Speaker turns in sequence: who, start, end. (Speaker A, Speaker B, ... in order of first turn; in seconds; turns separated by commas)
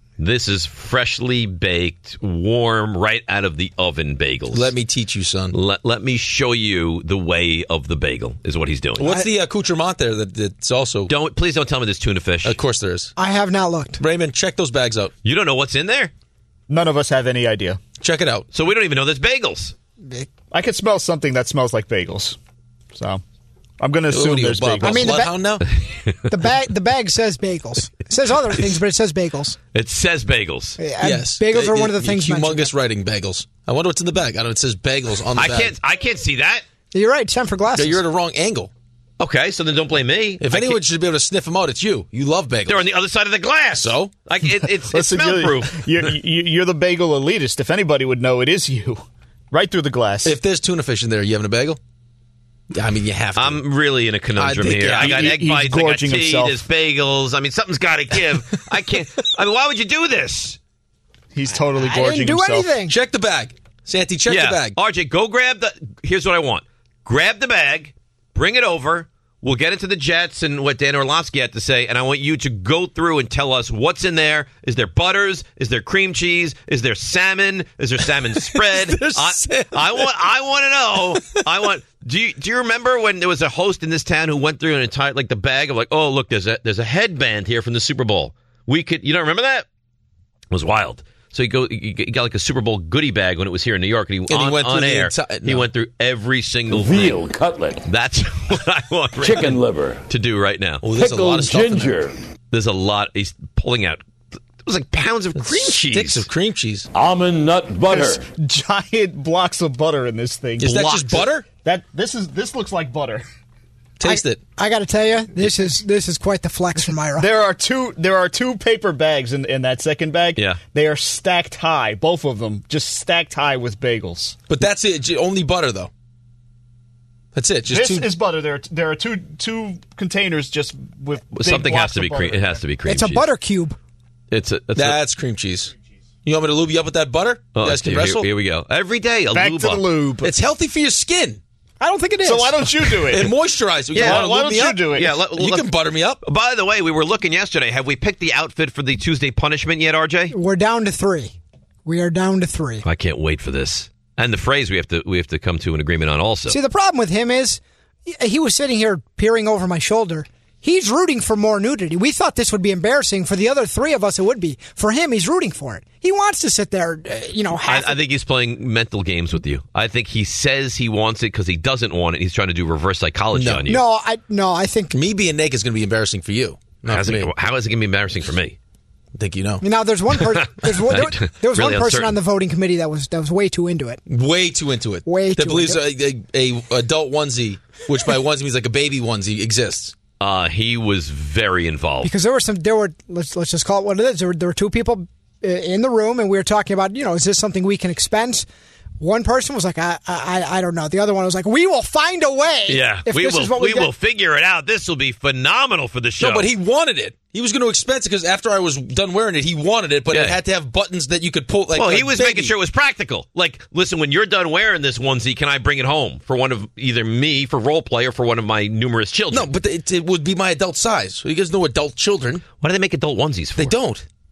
Speaker A: 0.2-4.7, Speaker B: 4.5-5.5, Speaker A: 5.5-9.1, Speaker B: 9.0-11.1, Speaker A: 11.1-12.6, Speaker B: 12.4-13.1, Speaker C: 13.2-14.0, Speaker B: 14.0-15.1, Speaker A: 15.2-16.1, Speaker D: 16.7-17.8, Speaker B: 18.0-18.5, Speaker A: 18.5-19.7, Speaker D: 20.5-22.4, Speaker D: 22.9-23.2, Speaker D: 23.8-25.2, Speaker B: 24.1-25.7, Speaker C: 24.8-25.4, Speaker C: 26.3-29.6, Speaker A: 29.7-30.8, Speaker C: 30.8-32.7, Speaker B: 31.0-35.7, Speaker A: 35.4-36.6, Speaker C: 36.9-38.0, Speaker B: 37.7-38.7, Speaker A: 39.2-40.8, Speaker B: 40.4-42.9, Speaker A: 42.7-46.0, Speaker B: 43.8-44.1, Speaker D: 44.5-50.4, Speaker B: 50.2-51.8, Speaker B: 52.7-53.6, Speaker A: 53.4-60.6, Speaker B: 54.4-55.4, Speaker D: 54.6-56.6, Speaker D: 61.3-62.7, Speaker C: 61.8-62.9, Speaker B: 62.9-64.8, Speaker A: 64.3-89.6, Speaker B: 78.5-80.1, Speaker A: 90.5-100.8, Speaker B: 94.3-95.7, Speaker E: 96.7-97.8, Speaker E: 99.2-100.0, Speaker B: 100.8-102.0, Speaker E: 100.9-102.2, Speaker A: 102.5-104.0, Speaker A: 104.6-106.3, Speaker B: 105.4-106.9, Speaker E: 106.9-108.2, Speaker D: 107.8-110.9, Speaker B: 110.6-111.5, Speaker A: 110.6-111.3, Speaker D: 111.6-113.2, Speaker B: 114.0-114.4, Speaker C: 114.0-117.3, Speaker D: 117.1-124.4, Speaker B: 124.5-125.9, Speaker B: 127.3-128.1, Speaker D: 127.7-132.6, Speaker A: 131.3-133.2, Speaker C: 132.9-133.8, Speaker A: 134.3-135.0, Speaker B: 134.7-135.7, Speaker B: 136.2-138.3, Speaker A: 137.5-139.8, Speaker D: 139.3-140.3, Speaker B: 140.2-141.4, Speaker C: 141.8-142.9, Speaker D: 142.2-143.4, Speaker B: 143.1-146.2, Speaker D: 143.9-145.2, Speaker A: 143.9-150.3, Speaker C: 150.3-151.3, Speaker C: 151.9-152.8, Speaker A: 152.8-156.6, Speaker C: 156.5-168.0, Speaker A: 167.6-173.8, Speaker B: 173.3-173.7, Speaker C: 173.7-174.9, Speaker B: 174.9-177.3, Speaker A: 176.9-178.6, Speaker B: 179.2-179.6, Speaker C: 179.6-184.0, Speaker A: 180.3-182.2, Speaker B: 184.1-189.9, Speaker C: 185.0-185.8, Speaker A: 190.2-192.1, Speaker C: 192.0-198.4, Speaker C: 199.0-203.9, Speaker A: 202.7-206.5, Speaker B: 206.2-212.5, Speaker A: 210.1-210.4, Speaker A: 211.7-219.5, Speaker B: 219.3-222.4, Speaker A: 222.6-223.8, Speaker B: 223.6-224.1